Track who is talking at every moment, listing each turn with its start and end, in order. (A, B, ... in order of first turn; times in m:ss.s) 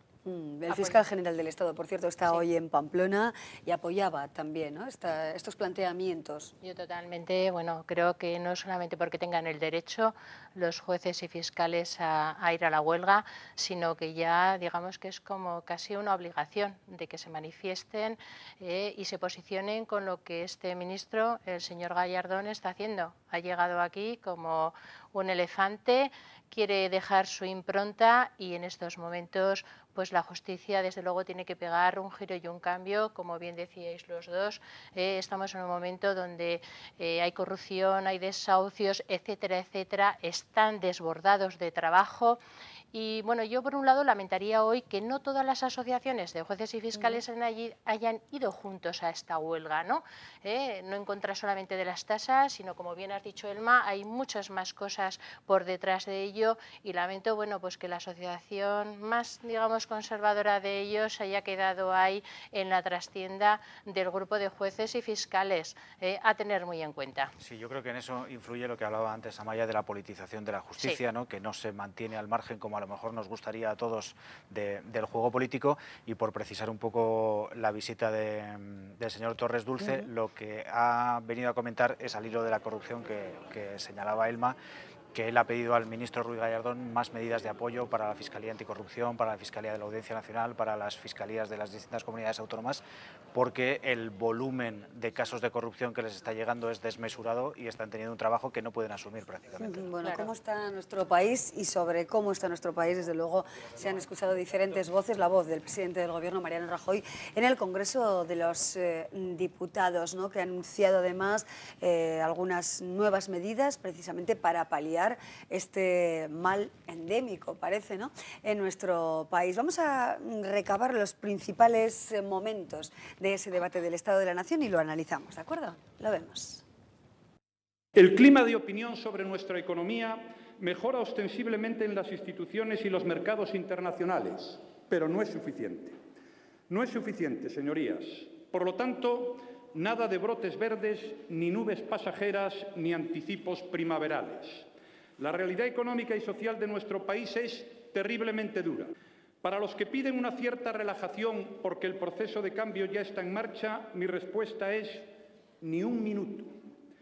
0:00.2-0:06.5 A
0:00.7-0:01.0 B
0:06.6-0:42.4 B
0:42.9-1:07.3 B
0:46.9-0:47.2 A
1:07.4-1:24.6 C
1:19.8-1:20.1 A
1:25.1-1:39.9 C
1:39.6-2:06.6 A
1:40.0-1:40.3 B
2:07.9-2:16.0 D
2:16.7-2:28.9 D
2:29.4-2:35.1 D
2:35.6-2:36.5 D